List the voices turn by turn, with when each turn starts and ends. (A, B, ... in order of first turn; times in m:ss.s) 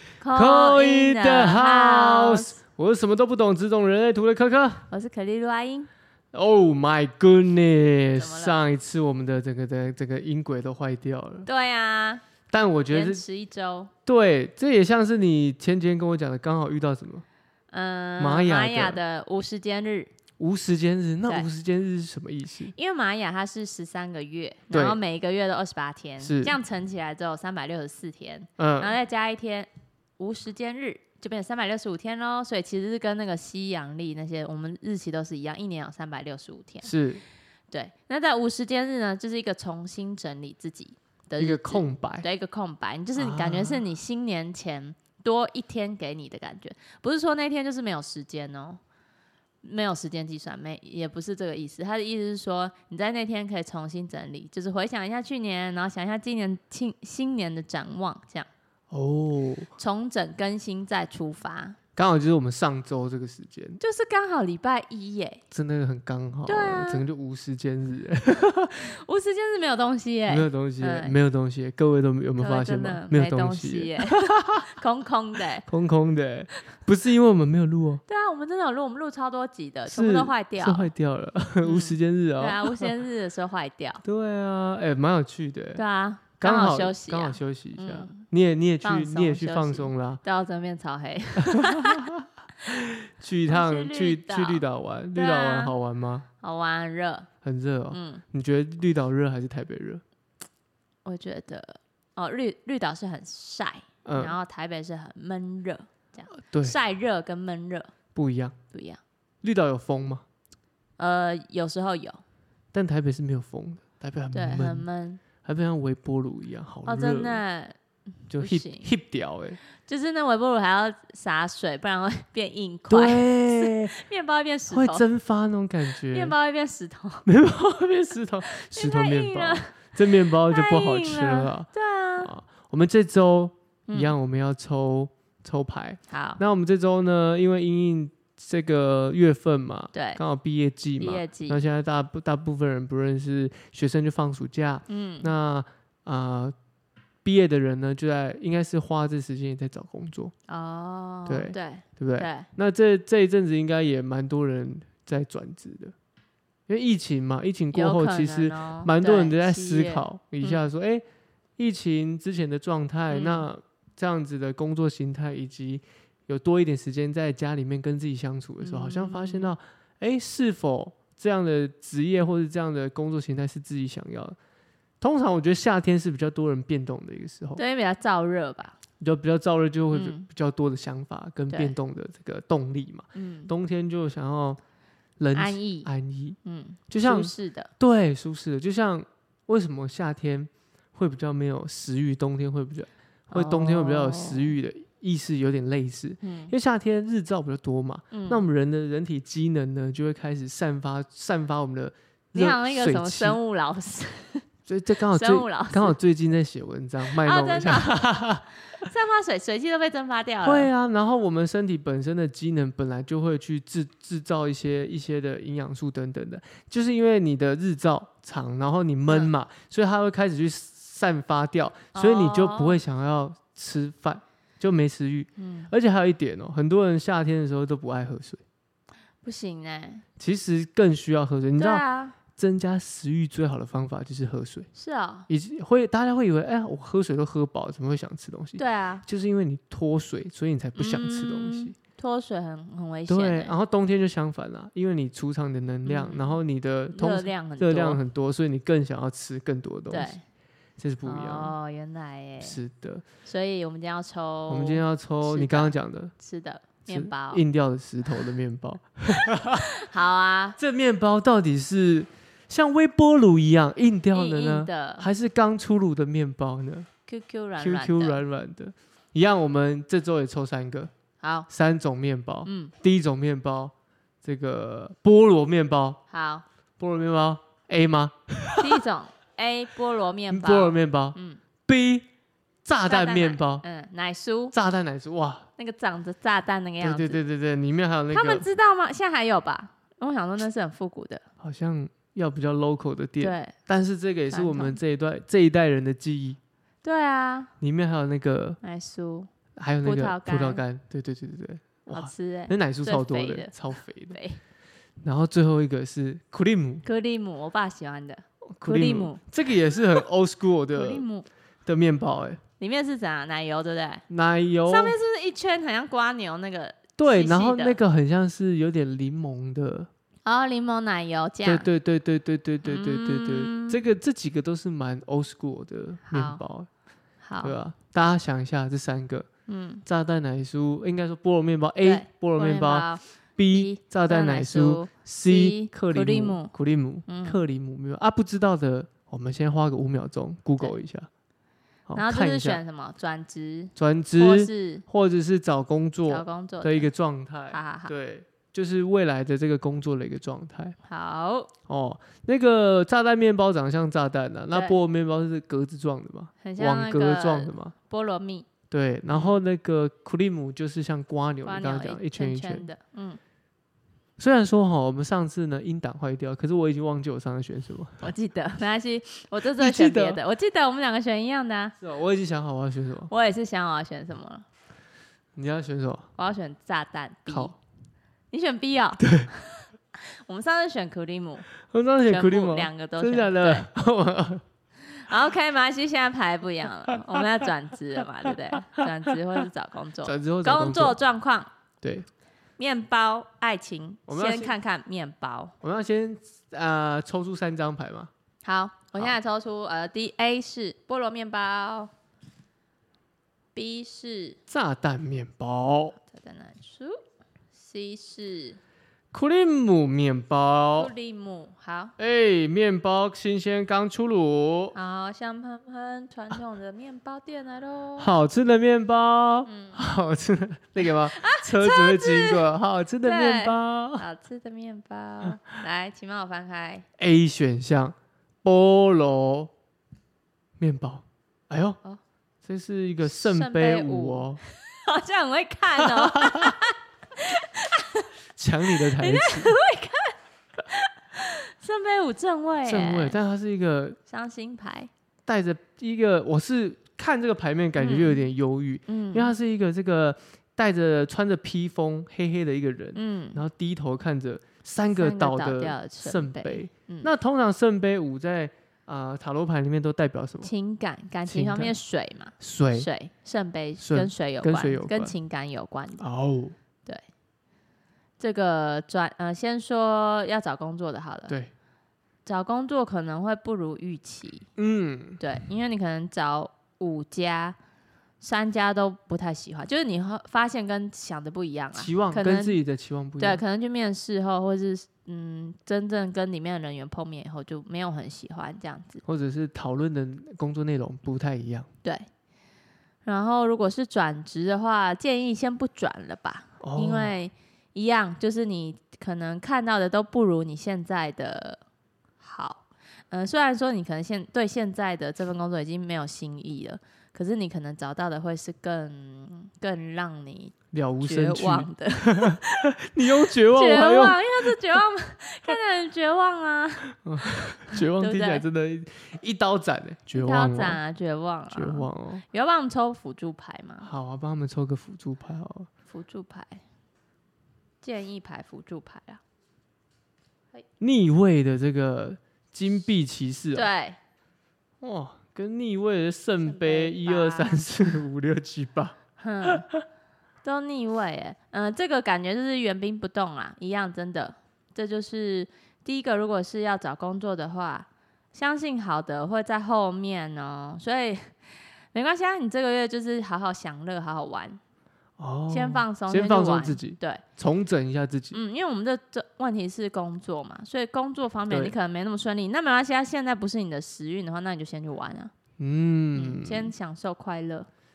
0:00.2-0:02.6 A
0:00.3-0:04.9 B
0:04.9-0:05.9 A
0:06.3-0:11.5 B
0:08.2-0:08.6 A
0:11.4-0:12.2 A
0:12.5-0:13.2 B
0:12.9-0:13.9 A
0:14.0-0:17.2 B
0:17.7-0:20.1 A
0:18.2-0:19.0 B
0:20.4-0:22.7 B
0:22.7-0:36.9 A
0:24.7-0:25.0 B
0:26.2-0:26.6 B
0:28.6-0:28.9 B
0:36.8-0:37.2 B
0:37.7-0:48.8 A
0:41.4-0:42.2 B
0:43.2-0:43.8 B
0:49.6-0:58.5 A
0:58.9-0:59.7 B
0:59.8-1:01.8 A
1:02.0-1:03.8 B
1:03.8-1:05.4 A
1:05.5-1:08.9 B
1:06.5-1:07.0 A
1:08.8-1:11.2 A
1:10.3-1:14.7 B
1:12.4-1:15.6 A
1:15.7-1:18.0 B
1:18.1-1:20.9 A
1:19.9-1:22.9 B
1:21.6-1:24.0 A
1:24.0-1:25.8 B
1:25.8-1:28.2 A
1:26.4-1:30.2 B
1:28.8-1:32.0 A
1:31.4-1:36.2 B
1:33.5-1:35.7 A
1:36.4-1:37.3 A
1:37.4-1:40.0 B
1:37.9-1:38.2 A
1:41.0-1:47.9 A
1:44.0-1:44.4 B
1:46.3-1:46.8 B
1:48.1-1:48.5 B
1:48.7-1:49.0 A
1:49.4-1:50.2 B
1:51.0-1:52.2 A
1:52.7-1:54.8 B
1:54.3-1:55.2 A
1:55.4-1:57.4 B
1:56.8-1:57.8 A
1:58.3-1:58.9 A
1:58.3-1:59.6 B
1:59.8-2:05.0 A
2:02.9-2:03.9 B
2:04.7-2:06.3 B
2:06.0-2:07.2 A
2:07.2-2:26.5 B
2:08.5-2:12.3 A
2:16.1-2:16.4 A
2:19.9-2:20.2 A
2:21.0-2:21.6 A
2:24.9-2:25.3 A
2:27.2-2:30.3 B
2:30.5-2:32.5 A
2:31.2-2:35.9 B
2:36.7-2:41.0 B
2:37.7-2:40.6 A
2:41.6-2:54.4 B
2:43.1-2:43.5 A
2:48.6-2:49.5 A
2:55.0-2:57.6 B
2:57.6-2:58.8 A
2:59.0-3:04.6 B
2:59.9-3:00.2 A
3:03.1-3:03.5 A
3:05.2-3:06.4 B
3:05.3-3:05.9 A
3:06.4-3:07.7 A
3:06.9-3:23.4 B
3:13.3-3:14.5 A
3:16.2-3:16.5 A
3:18.1-3:18.4 A
3:22.3-3:24.4 A
3:24.6-3:28.4 B
3:25.1-3:26.0 A
3:27.0-3:28.0 A
3:28.8-3:30.7 A
3:30.4-3:48.4 B
3:41.9-3:42.8 A
3:45.4-3:45.7 A
3:49.2-3:50.0 A
3:50.2-3:54.7 B
3:51.6-3:52.2 A
3:54.7-3:55.3 A
3:55.3-4:01.7 B
3:58.6-3:59.0 A
4:00.8-4:03.5 A
4:03.1-4:10.1 B
4:05.8-4:06.4 A
4:06.9-4:08.0 A
4:09.9-4:10.2 A
4:10.8-4:11.5 B
4:11.0-4:12.6 A
4:12.4-4:13.0 B
4:13.2-4:17.4 A
4:14.5-4:16.1 B
4:16.9-4:19.7 B
4:19.6-4:20.6 A
4:20.6-4:26.9 B
4:24.1-4:25.1 A
4:27.1-4:28.2 A
4:27.6-4:30.9 B
4:31.2-4:31.5 A
4:31.5-4:36.0 B
4:32.4-4:32.7 A
4:36.1-4:36.4 A
4:36.8-4:38.8 B
4:38.6-4:41.4 A
4:40.3-4:42.0 B
4:42.6-4:43.6 B
4:42.8-4:44.5 A
4:44.5-4:45.5 B
4:45.6-4:47.2 A
4:46.8-4:48.4 B
4:48.1-4:51.2 A
4:51.4-4:56.4 B
4:53.2-4:53.5 A
4:54.3-4:54.8 A
4:56.8-4:57.5 A
4:57.6-4:58.6 B
4:58.6-4:59.3 A
4:59.6-5:04.2 B
4:59.8-5:00.6 A
5:01.9-5:03.5 A
5:04.1-5:04.4 A
5:05.0-5:06.8 B
5:06.8-5:09.2 A
5:08.6-5:11.0 B
5:10.7-5:11.2 A
5:11.6-5:12.4 B
5:12.6-5:14.0 A
5:14.1-5:15.0 B
5:14.7-5:17.8 A
5:17.0-5:19.9 B
5:20.2-5:21.7 A
5:21.4-5:26.7 B
5:22.6-5:23.8 A
5:26.0-5:26.4 A
5:27.2-5:27.5 A
5:27.4-5:29.3 B
5:29.5-5:29.8 A
5:29.8-5:41.1 B
5:31.8-5:33.0 A
5:33.5-5:36.5 A
5:37.1-5:37.4 A
5:41.9-5:42.6 B
5:42.0-5:44.8 A
5:43.8-5:50.8 B
5:46.1-5:46.9 A
5:47.5-5:47.9 A
5:50.8-5:51.5 A
5:51.7-5:57.7 B
5:56.4-5:58.5 A
5:58.7-6:02.7 B
6:01.4-6:03.2 A
6:04.2-6:08.0 B
6:08.0-6:11.7 A
6:09.5-6:10.2 B
6:11.8-6:13.1 B
6:13.1-6:14.4 A
6:15.4-6:16.1 B
6:16.2-6:17.5 A
6:17.3-6:17.6 B
6:18.3-6:21.5 A
6:19.0-6:19.3 B
6:21.7-6:24.4 B
6:22.0-6:23.7 A
6:24.9-6:31.5 A
6:30.0-6:31.0 B
6:32.6-6:35.5 A
6:34.1-6:34.5 B
6:35.6-6:38.1 B
6:38.4-6:41.9 A
6:43.5-6:44.4 A
6:44.5-6:46.0 B
6:46.1-6:47.0 A
6:47.5-6:48.6 A
6:49.1-6:50.9 B
6:50.8-6:51.9 A
6:52.0-6:54.7 B
6:54.7-6:58.1 A
6:58.0-7:04.0 B
6:59.5-6:59.8 A
7:00.8-7:02.4 A
7:03.0-7:06.8 A
7:07.0-7:09.5 B
7:10.6-7:11.8 B
7:12.4-7:14.4 B
7:13.1-7:18.1 A
7:15.8-7:16.6 B
7:18.4-7:19.5 B
7:18.7-7:23.2 A
7:22.6-7:24.0 B
7:24.1-7:24.9 A
7:25.2-7:40.5 B
7:27.8-7:28.2 A
7:28.9-7:29.3 A
7:32.9-7:33.4 A
7:34.9-7:37.1 A
7:40.4-7:46.0 A
7:41.3-7:41.7 B
7:42.4-7:42.9 B
7:43.8-7:45.1 B
7:46.0-7:46.6 B
7:48.2-7:51.3 A
7:52.2-7:54.5 A
7:54.6-7:55.2 B
7:55.2-7:57.6 A
7:58.2-8:02.6 A
8:01.7-8:03.4 B
8:03.2-8:09.0 A
8:09.0-8:11.7 B
8:13.0-8:21.6 A
8:16.6-8:17.1 B
8:22.2-8:32.7 A
8:30.7-8:34.6 B
8:33.3-8:36.9 A
8:37.0-8:40.8 B
8:37.7-8:38.4 A
8:40.1-8:43.9 A
8:41.5-8:42.2 B
8:43.8-8:45.7 B
8:45.9-8:46.6 A
8:47.8-8:49.2 A
8:50.8-8:53.7 B
8:53.5-8:54.0 A
8:54.8-8:59.8 B
8:56.4-8:57.9 A
8:59.2-8:59.6 A
9:00.4-9:11.4 A
9:11.9-9:14.6 A
9:15.2-9:18.4 B
9:15.5-9:17.2 A
9:18.3-9:25.3 A
9:25.6-9:26.7 B
9:26.1-9:27.7 A